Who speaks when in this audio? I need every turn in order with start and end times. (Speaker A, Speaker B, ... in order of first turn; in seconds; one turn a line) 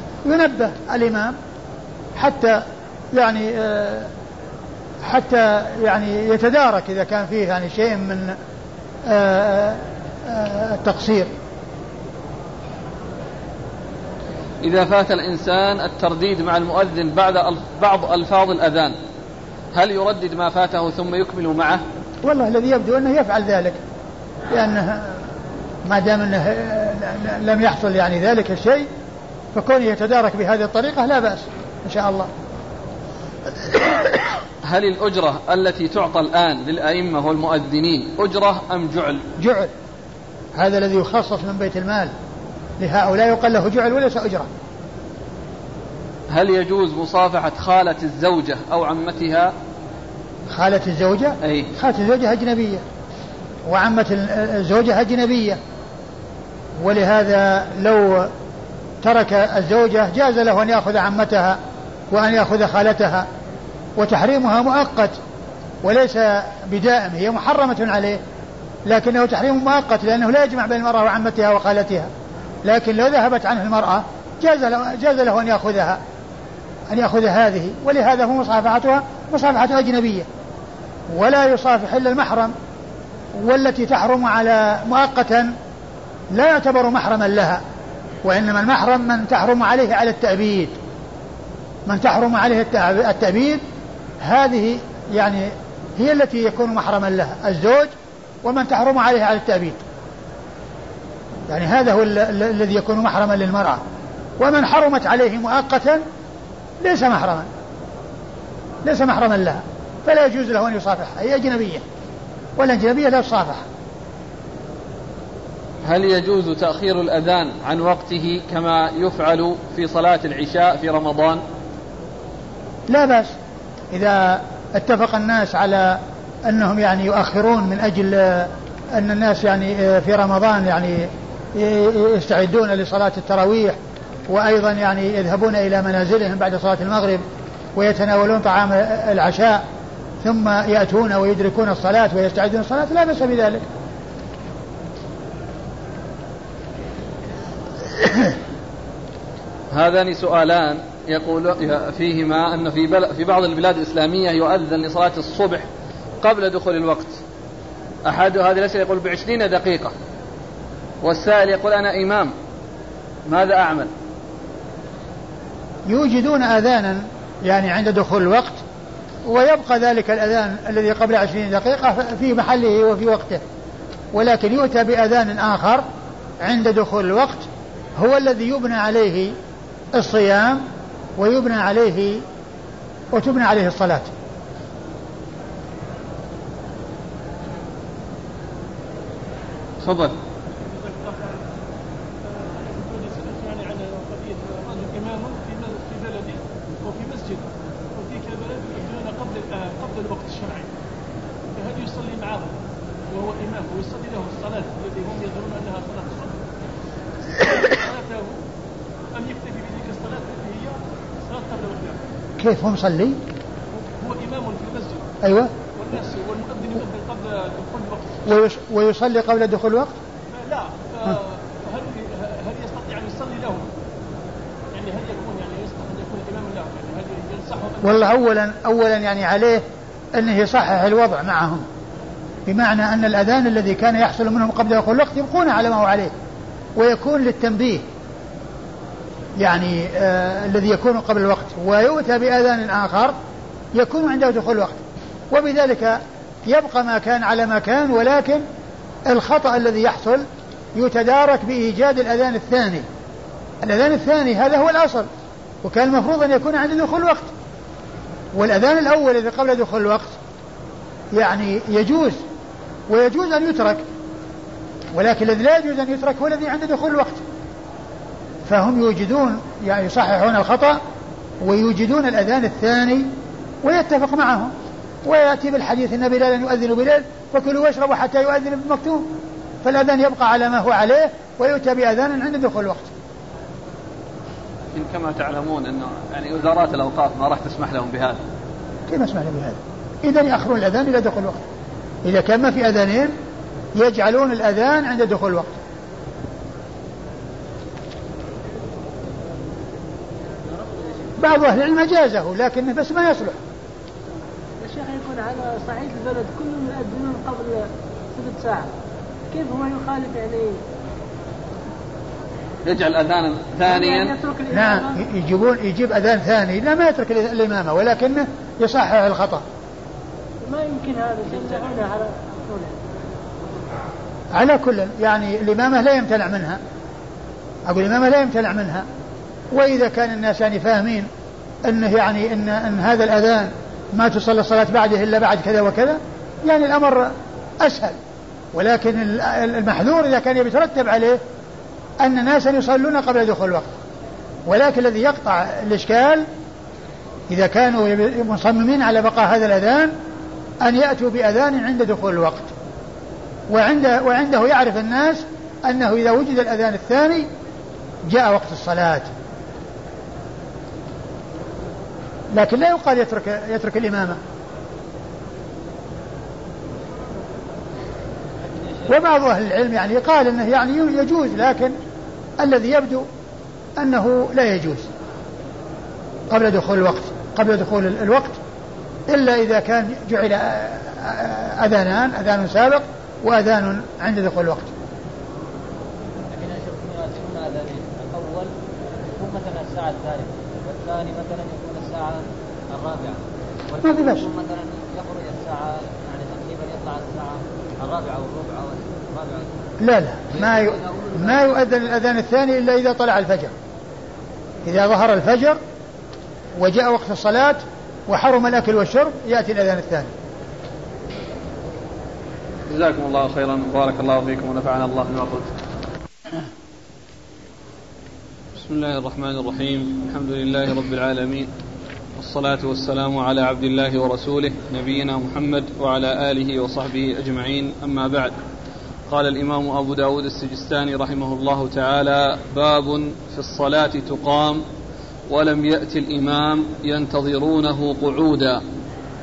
Speaker A: 0.2-1.3
Speaker A: 2.1-4.1
Speaker A: 5.0-8.4
Speaker A: 9.1-11.3
Speaker B: 14.6-18.9
Speaker B: 19.7-21.8
Speaker A: 22.2-23.8
Speaker A: 24.5-25.2
Speaker A: 25.8-28.9
Speaker A: 29.5-32.3
Speaker B: 34.6-39.3
Speaker A: 39.4-39.7
Speaker A: 40.5-42.1
Speaker A: 42.8-44.5
Speaker B: 46.3-49.5
Speaker A: 50.5-52.8
Speaker B: 51.4-51.7
Speaker A: 53.6-55.6
Speaker A: 56.8-58.3
Speaker A: 59.0-61.6
Speaker A: 62.1-63.3
Speaker A: 64.0-65.2
Speaker A: 65.8-68.2
Speaker A: 68.8-72.1
Speaker A: 72.6-76.0
Speaker A: 76.9-80.3
Speaker A: 81.1-82.5
Speaker A: 83.3-85.5
Speaker A: 86.3-87.6
Speaker A: 88.2-90.7
Speaker A: 91.8-93.6
Speaker A: 94.2-97.9
Speaker A: 98.4-99.8
Speaker A: 101.5-103.8
Speaker A: 104.4-106.0
Speaker A: 106.8-107.5
Speaker A: 108.8-111.8
Speaker A: 112.6-113.6
Speaker B: 115.8-121.4
Speaker A: 122.9-123.3
Speaker A: 123.9-137.2
Speaker A: 137.7-139.6
Speaker A: 140.2-143.6
Speaker B: 149.7-155.7
Speaker B: 156.2-157.2
Speaker B: 158.0-159.9
Speaker B: 161.0-162.3
Speaker B: 163.2-163.9
Speaker A: 165.9-168.6
Speaker A: 169.2-173.4
Speaker A: 174.1-175.8
Speaker A: 176.4-179.3
Speaker A: 179.9-180.6
Speaker A: 181.2-182.2
Speaker A: 183.1-184.1
Speaker B: 189.8-190.2
Speaker C: 190.6-191.4
Speaker C: 192.2-200.7
Speaker C: 201.5-202.5
Speaker C: 203.1-206.4
Speaker C: 207.4-208.4
Speaker C: 209.1-212.0
Speaker A: 212.4-213.2
Speaker C: 213.9-215.1
Speaker A: 215.2-215.5
Speaker C: 215.8-218.2
Speaker A: 218.2-219.9
Speaker C: 220.3-223.7
Speaker C: 224.7-228.1
Speaker A: 227.8-231.7
Speaker A: 232.4-236.1
Speaker A: 236.8-237.8
Speaker A: 239.4-243.2
Speaker A: 243.7-244.8
Speaker A: 245.3-248.4
Speaker A: 249.1-252.8
Speaker A: 253.6-255.1
Speaker A: 255.6-257.3
Speaker A: 258.3-260.2
Speaker A: 261.1-262.2
Speaker A: 262.9-263.8
Speaker A: 264.9-267.2
Speaker A: 268.4-270.8
Speaker A: 271.4-274.5
Speaker A: 275.0-282.9
Speaker B: 284.7-288.2
Speaker A: 288.9-291.4
Speaker A: 292.0-293.1
Speaker A: 293.7-295.6
Speaker A: 301.2-303.4
Speaker D: 304.6-307.6
Speaker D: 308.1-308.7
Speaker D: 309.3-310.6
Speaker B: 312.6-314.2
Speaker D: 313.9-314.8
Speaker A: 314.5-319.4
Speaker D: 320.4-322.7
Speaker A: 324.3-326.6
Speaker A: 327.6-328.9
Speaker A: 329.5-331.1
Speaker A: 331.6-338.0
Speaker A: 338.5-341.2
Speaker A: 342.0-343.7
Speaker A: 344.4-346.2
Speaker A: 347.3-349.9
Speaker A: 350.6-352.5
Speaker A: 353.5-357.3
Speaker A: 358.1-359.1
Speaker A: 362.3-364.2
Speaker A: 368.9-371.7
Speaker A: 372.4-373.1
Speaker A: 373.8-374.9
Speaker A: 376.3-378.4
Speaker A: 379.1-384.7
Speaker E: 386.3-388.5
Speaker E: 389.2-399.5
Speaker A: 393.8-394.2
Speaker A: 399.8-403.5
Speaker E: 400.3-401.8
Speaker A: 404.6-405.6
Speaker A: 406.6-410.1
Speaker B: 412.7-415.6
Speaker B: 418.6-421.5
Speaker B: 422.1-428.3
Speaker B: 429.1-434.6
Speaker B: 435.3-438.6